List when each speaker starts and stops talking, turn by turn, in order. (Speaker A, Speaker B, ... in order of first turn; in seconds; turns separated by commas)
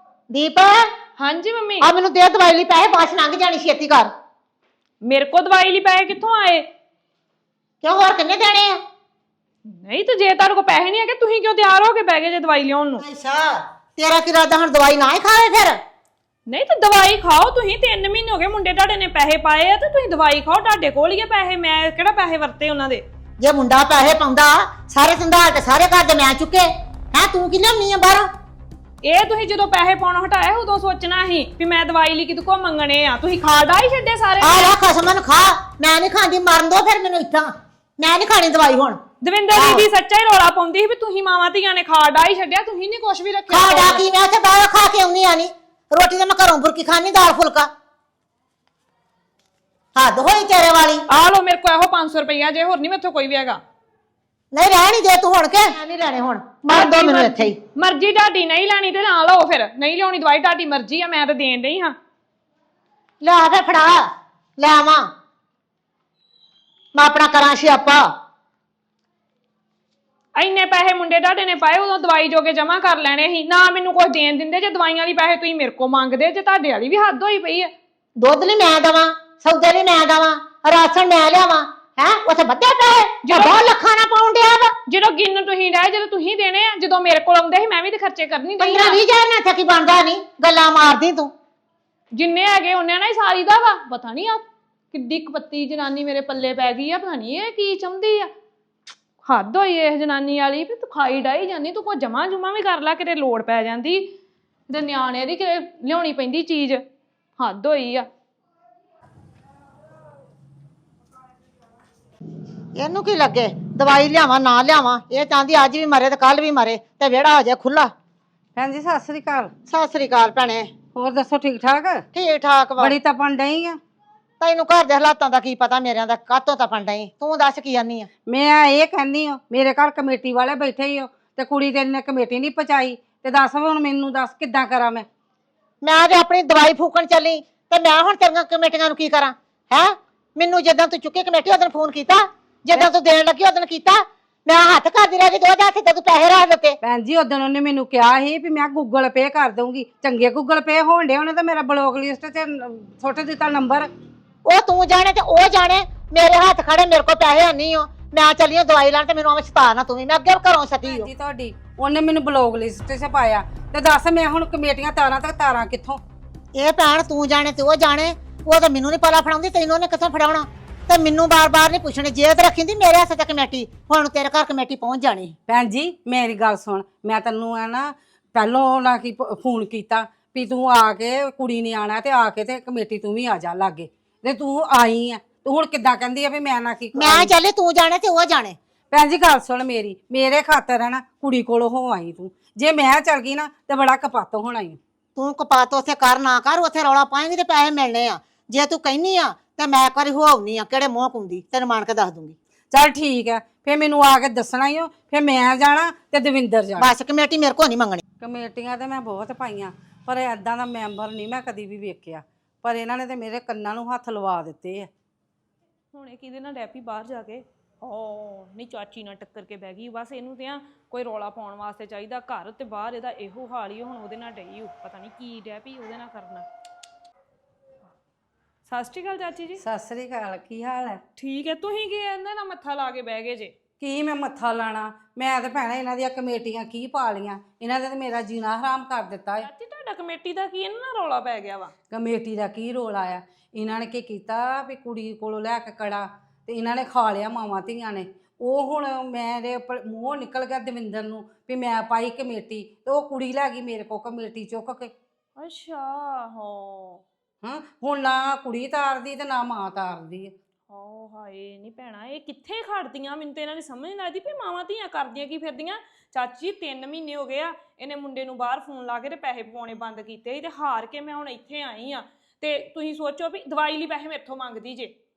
Speaker A: 0.3-0.9, Speaker B: 1.2-1.9, Speaker A: 1.8-4.1, Speaker B: 5.0-6.7, Speaker A: 7.8-8.8, Speaker B: 9.7-13.0, Speaker A: 13.0-15.8, Speaker B: 16.5-23.0, Speaker A: 23.4-28.3, Speaker B: 29.0-34.8, Speaker A: 34.4-39.0, Speaker B: 39.2-44.0, Speaker A: 39.5-39.9, Speaker A: 43.5-47.7, Speaker A: 50.0-51.0, Speaker B: 51.1-53.6, Speaker A: 54.5-57.6, Speaker B: 56.7-62.0, Speaker A: 63.2-64.0, Speaker A: 64.6-65.1, Speaker A: 67.0-68.1, Speaker B: 70.4-77.7, Speaker A: 78.2-84.7, Speaker B: 83.2-83.7, Speaker B: 84.9-89.0, Speaker A: 88.6-91.3, Speaker B: 92.2-98.3, Speaker B: 99.2-104.1, Speaker B: 104.7-106.8, Speaker B: 107.4-108.1, Speaker A: 112.8-117.9, Speaker C: 118.6-119.5, Speaker A: 119.7-120.7, Speaker C: 121.0-122.0, Speaker A: 122.1-123.0, Speaker C: 122.8-123.8, Speaker A: 124.4-128.1, Speaker C: 128.3-135.1, Speaker A: 135.8-146.8, Speaker C: 146.8-153.9, Speaker A: 154.4-161.1, Speaker C: 160.8-166.0, Speaker A: 166.6-175.4, Speaker C: 175.5-187.3, Speaker A: 186.9-188.6, Speaker C: 188.9-194.8, Speaker A: 195.2-202.4, Speaker C: 202.7-206.9, Speaker A: 206.8-208.0, Speaker C: 208.2-214.9, Speaker B: 215.9-226.5, Speaker B: 228.7-229.6, Speaker C: 229.6-231.0, Speaker B: 231.2-233.5, Speaker C: 233.8-239.5, Speaker B: 239.4-241.7, Speaker C: 241.9-254.9, Speaker B: 255.4-257.0, Speaker C: 257.4-260.3, Speaker B: 260.7-274.9